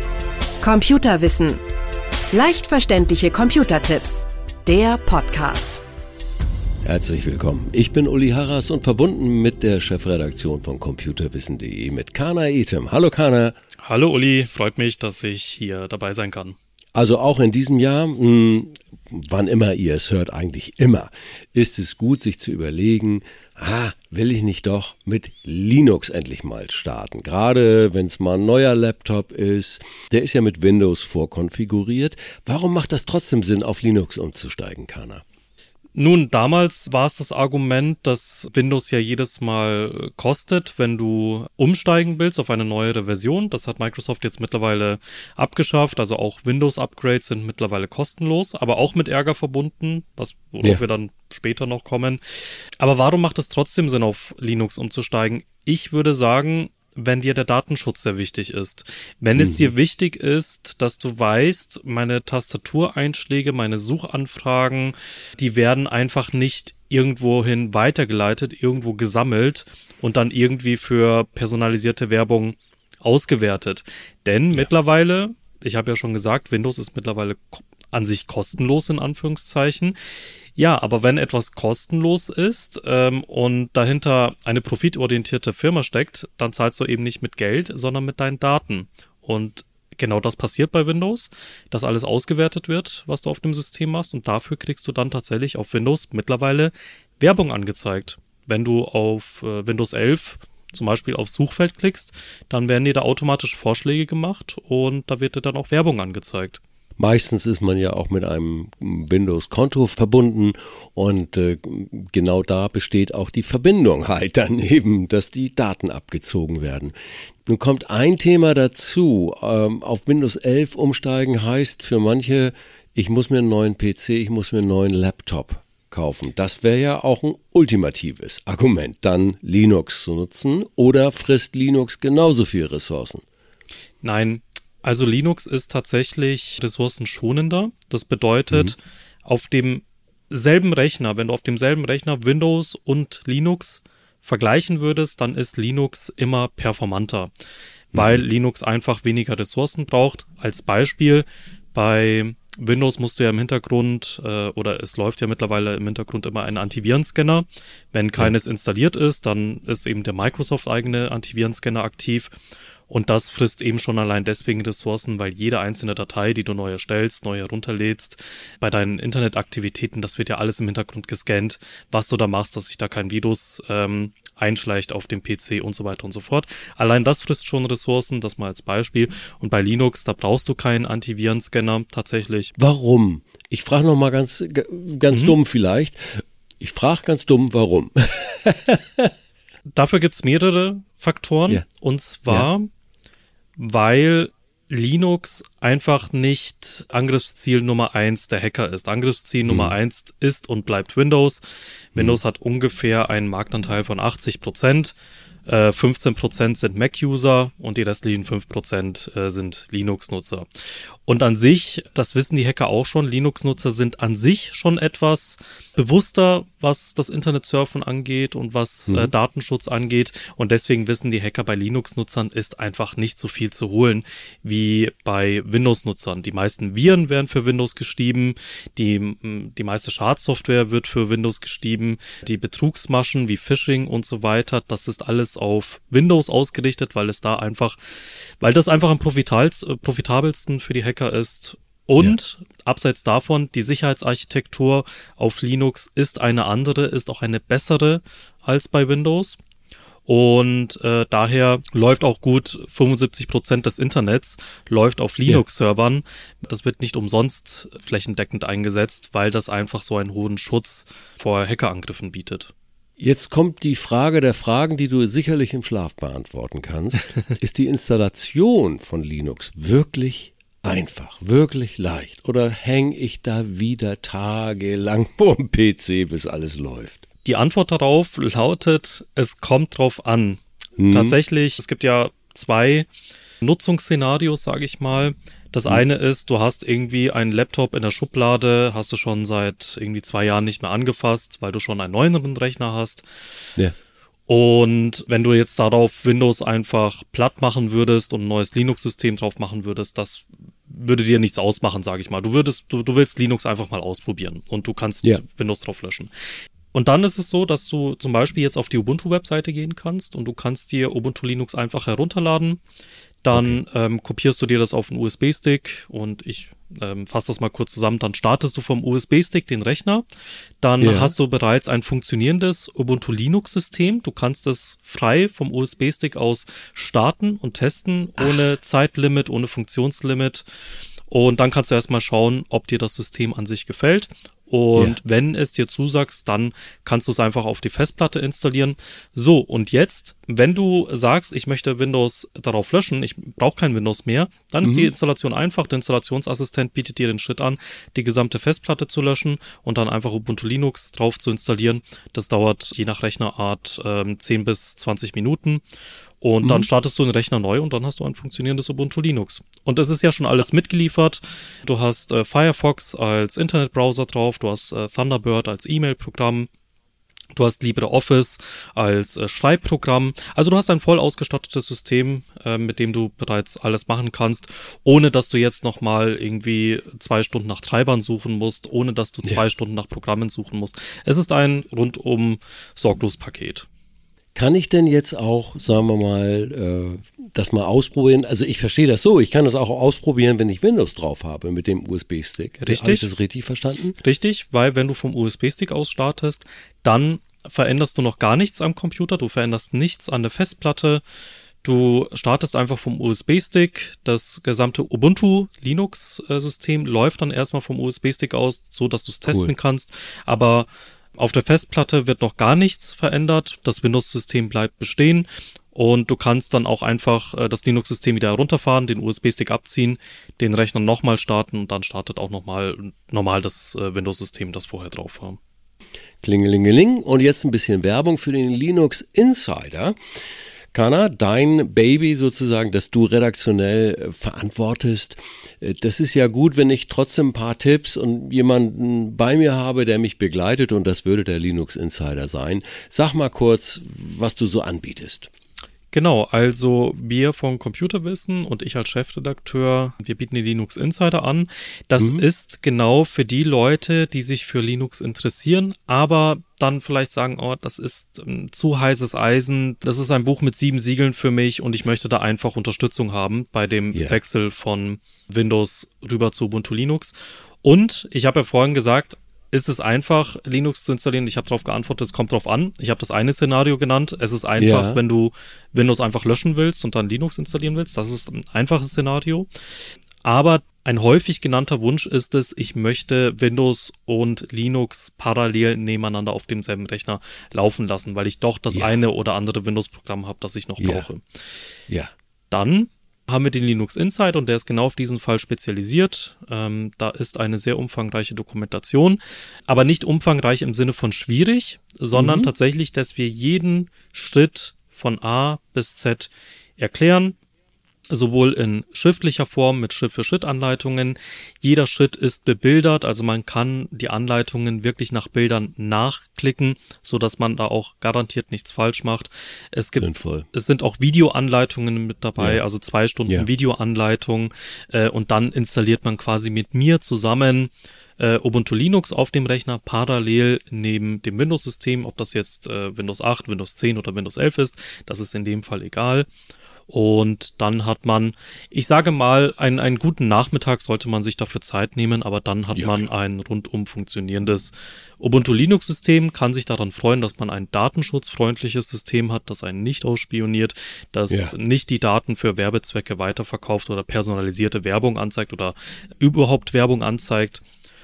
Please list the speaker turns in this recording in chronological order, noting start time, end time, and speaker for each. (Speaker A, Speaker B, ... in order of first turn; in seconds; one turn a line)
Speaker A: 0.6-1.6
Speaker A: 2.3-5.8
Speaker B: 6.8-13.6
Speaker C: 13.8-16.6
Speaker B: 16.9-35.2
Speaker C: 36.0-52.2
Speaker C: 52.8-80.0
Speaker B: 59.4-59.7
Speaker C: 80.6-106.6
Speaker B: 107.0-116.9
Speaker B: 117.5-133.2
Speaker C: 134.0-147.3
Speaker C: 147.9-162.3
Speaker B: 147.9-148.2
Speaker C: 162.9-182.5
Speaker B: 182.6-189.1
Speaker C: 185.1-185.4
Speaker C: 189.7-192.7
Speaker C: 193.6-201.4
Speaker B: 199.5-199.7
Speaker C: 201.9-204.9
Speaker C: 205.5-210.5
Speaker C: 211.1-249.4
Speaker C: 250.1-262.5
Speaker B: 263.0-277.0
Speaker C: 277.2-282.9
Speaker B: 280.8-281.2
Speaker C: 283.4-293.1
Speaker C: 294.3-306.1
Speaker C: 306.7-312.6
Speaker C: 313.2-320.1
Speaker B: 313.3-313.6
Speaker C: 320.6-330.4
Speaker B: 320.8-321.1
Speaker B: 328.2-328.4
Speaker C: 331.1-355.6
Speaker B: 344.6-344.9
Speaker C: 356.2-366.5
Speaker B: 356.4-356.7
Speaker C: 367.3-383.7
Speaker B: 384.4-394.0
Speaker C: 392.6-393.1
Speaker C: 394.0-401.0
Speaker C: 401.6-425.4
Speaker B: 409.3-409.5
Speaker B: 426.2-430.0
Speaker B: 430.7-445.3
Speaker C: 445.9-479.5
Speaker B: 452.0-452.2
Speaker B: 474.6-475.0
Speaker C: 480.2-491.4
Speaker B: 490.8-491.1
Speaker C: 492.5-507.4
Speaker B: 502.1-502.5
Speaker C: 508.1-536.3
Speaker B: 520.0-520.5
Speaker C: 536.9-557.6
Speaker B: 542.8-543.1
Speaker B: 551.3-551.5